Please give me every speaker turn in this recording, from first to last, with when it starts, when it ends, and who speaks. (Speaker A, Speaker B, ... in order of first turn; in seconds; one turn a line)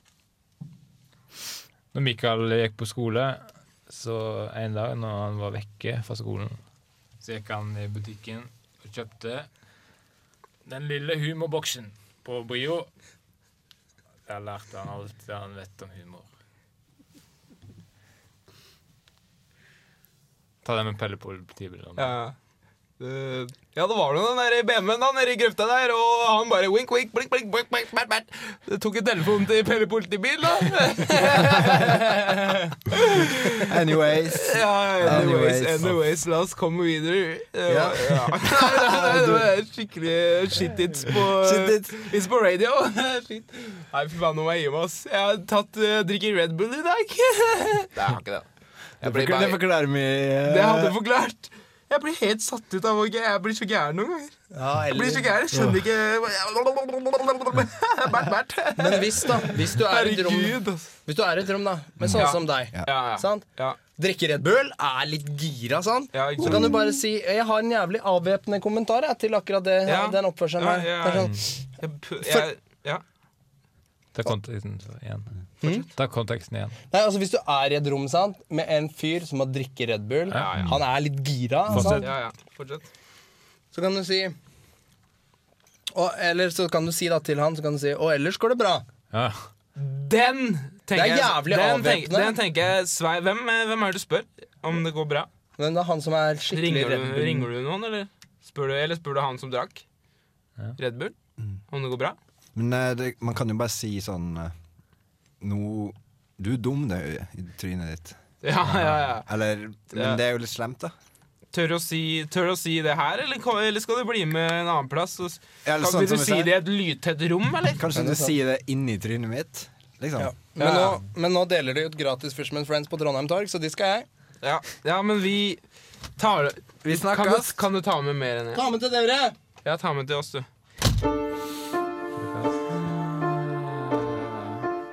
Speaker A: 1.9-6.6
Speaker A: 7.2-9.5
Speaker A: 10.7-12.9
Speaker A: 14.3-16.3
Speaker A: 20.6-22.1
Speaker B: 22.0-22.4
Speaker B: 23.0-48.5
Speaker C: 32.2-32.7
Speaker D: 33.5-35.9
Speaker D: 37.8-38.4
Speaker D: 41.4-41.9
Speaker B: 49.0-49.6
Speaker D: 49.0-51.0
Speaker B: 50.5-54.4
Speaker C: 54.5-55.3
Speaker B: 54.9-60.9
Speaker D: 55.5-55.8
Speaker C: 58.8-63.4
Speaker D: 62.0-62.9
Speaker B: 62.1-63.8
Speaker C: 64.0-71.5
Speaker B: 66.1-66.9
Speaker D: 66.5-66.7
Speaker B: 69.9-73.0
Speaker A: 74.2-75.3
Speaker A: 75.9-76.8
Speaker C: 76.9-82.1
Speaker A: 80.3-80.7
Speaker B: 80.3-80.8
Speaker A: 81.7-82.1
Speaker B: 81.8-82.9
Speaker C: 83.7-84.3
Speaker C: 85.9-88.8
Speaker A: 89.1-89.5
Speaker B: 89.8-95.3
Speaker C: 90.9-92.4
Speaker C: 95.6-97.5
Speaker B: 96.5-99.8
Speaker B: 100.8-101.2
Speaker B: 101.7-102.2
Speaker D: 102.5-104.5
Speaker D: 105.4-108.2
Speaker B: 108.4-109.3
Speaker D: 108.8-110.9
Speaker B: 109.9-110.2
Speaker B: 111.5-117.8
Speaker D: 115.7-116.5
Speaker D: 117.8-120.3
Speaker C: 117.9-118.3
Speaker C: 120.2-124.1
Speaker B: 120.6-121.0
Speaker B: 124.4-125.6
Speaker B: 126.2-128.6
Speaker D: 126.8-127.6
Speaker C: 128.6-129.4
Speaker B: 129.6-130.5
Speaker A: 132.2-132.8